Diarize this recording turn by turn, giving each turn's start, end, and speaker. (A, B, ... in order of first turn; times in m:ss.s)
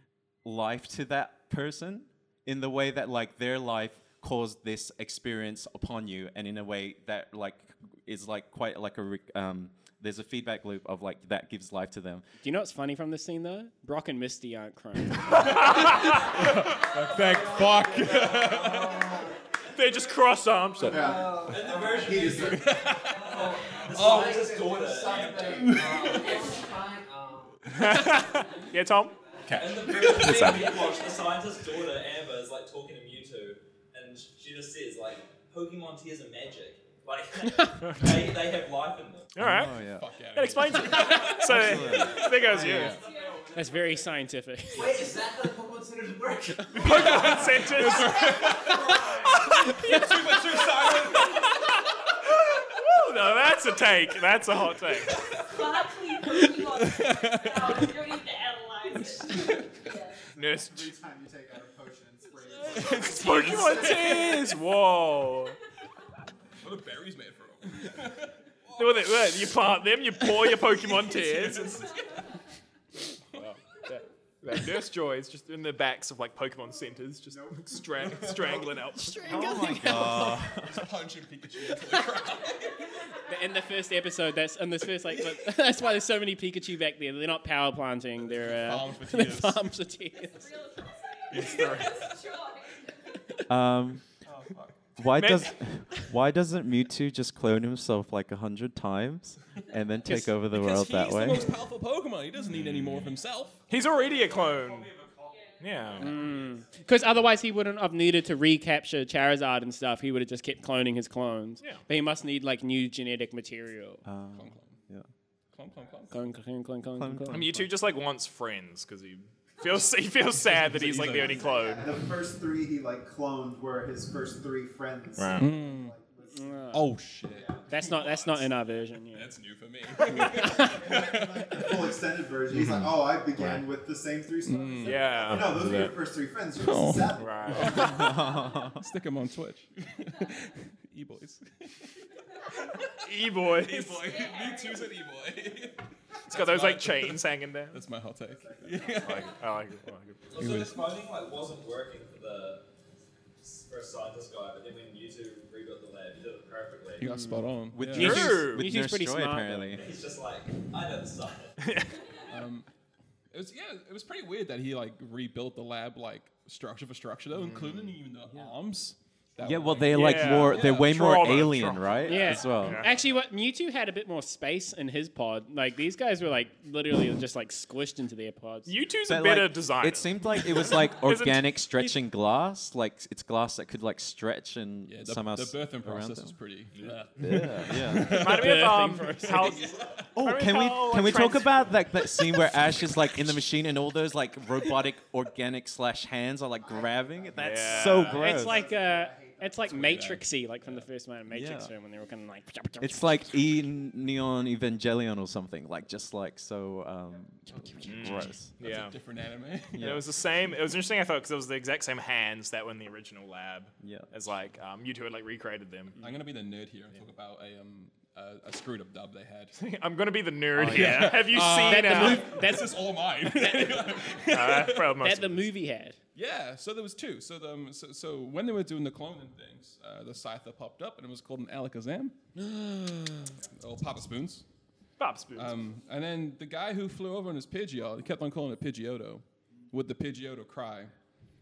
0:00.4-0:12.2 A
0:12.4-0:15.7 B
0:15.3-0:16.7 C
0:15.6-0:19.2 D
0:19.7-0:21.2 C
0:20.8-0:23.0 E
0:20.9-0:26.6 F
0:23.8-0:24.4 D
0:24.5-0:25.9 E
0:25.4-0:26.4 D
0:26.0-0:26.8 G
0:27.7-0:29.2 C
0:27.7-0:28.0 D
0:29.4-0:30.7 D
0:29.5-0:39.3 F
0:30.8-0:31.1 G
0:37.8-0:38.1 C
0:39.3-0:39.7 C
0:39.4-0:40.1 A
0:39.8-0:42.6 D
0:40.3-0:43.0 C
0:40.9-0:41.2 B
0:41.4-0:43.0 A
0:42.4-0:43.8 F
0:42.8-0:43.5 G
0:43.5-0:45.0 B
0:44.7-0:47.5 F
0:46.7-0:48.5 C
0:46.7-0:51.5 D
0:48.2-0:48.4 G
0:48.6-0:49.0 F
0:49.3-0:49.8 C
0:51.1-0:55.2 C
0:55.1-0:55.4 D
0:55.3-1:00.2 G
0:56.4-0:57.9 D
0:59.0-0:59.7 D
1:00.3-1:00.9 C
1:00.3-1:04.5 E
1:02.7-1:03.1 D
1:02.7-1:05.6 C
1:06.6-1:09.5 D
1:08.8-1:11.9 C
1:10.2-1:12.2 D
1:13.3-1:19.4 C
1:17.3-1:18.7 E
1:19.0-1:20.4 B
1:19.2-1:20.9 A
1:19.8-1:22.8 D
1:23.3-1:30.5 B
1:28.2-1:29.6 D
1:30.2-1:33.0 G
1:31.3-1:32.1 C
1:31.3-1:32.0 D
1:33.5-1:34.0 A
1:34.3-1:34.8 D
1:35.0-1:41.5 A
1:35.2-1:35.5 C
1:40.4-1:43.6 D
1:43.7-1:44.9 C
1:44.1-1:45.2 F
1:45.2-1:46.0 G
1:45.6-1:46.2 C
1:46.0-1:54.0 B
1:54.0-1:55.1 A
1:54.3-1:54.8 D
1:55.5-1:56.2 D
1:56.1-1:57.4 B
1:57.0-1:57.7 A
1:57.3-2:02.0 C
2:00.3-2:01.6 D
2:01.2-2:07.8 E
2:05.2-2:05.5 C
2:05.4-2:06.0 D
2:06.3-2:06.9 B
2:06.7-2:08.4 D
2:07.7-2:09.3 B
2:09.1-2:12.0 D
2:10.0-2:10.8 B
2:10.1-2:18.0 E
2:14.4-2:15.2 D
2:14.8-2:15.9 C
2:16.6-2:21.9 D
2:17.2-2:18.1 C
2:17.7-2:18.8 A
2:22.5-2:22.9 D
2:23.0-2:24.1 C
2:23.4-2:29.4 D
2:24.0-2:24.9 G
2:26.3-2:27.8 C
2:28.2-2:29.3 E
2:29.0-2:30.2 C
2:30.3-2:32.6 F
2:30.3-2:30.9 D
2:33.4-2:37.1 F
2:37.0-2:38.4 D
2:37.0-2:39.7 B
2:37.7-2:39.8 A
2:37.9-2:38.7 C
2:39.7-2:41.6 F
2:41.6-2:42.0 C
2:42.0-2:42.3 G
2:42.3-2:42.7 D
2:43.3-2:50.9 D
2:47.3-2:47.9 C
2:49.4-2:52.8 A
2:49.9-2:52.9 C
2:52.1-2:58.7 B
2:58.6-3:01.5 C
2:59.1-3:06.4 A
3:04.9-3:10.1 D
3:06.7-3:07.4 C
3:07.2-3:08.2 A
3:08.0-3:09.6 B
3:08.0-3:11.7 C
3:10.2-3:18.6 A
3:16.6-3:20.0 E
3:17.3-3:18.3 C
3:18.0-3:23.2 B
3:19.7-3:20.8 D
3:21.3-3:21.7 A
3:22.8-3:28.5 A
3:27.5-3:29.9 D
3:27.8-3:28.9 C
3:29.7-3:36.0 C
3:29.8-3:30.0 A
3:33.8-3:34.1 A
3:36.0-3:39.6 D
3:39.5-3:42.4 C
3:40.6-3:45.0 D
3:40.7-3:44.0 B
3:44.3-3:45.4 C
3:45.0-3:46.0 B
3:46.1-3:52.2 D
3:52.4-3:53.3 B
3:53.6-3:54.4 D
3:55.0-3:55.6 C
3:55.3-4:00.9 D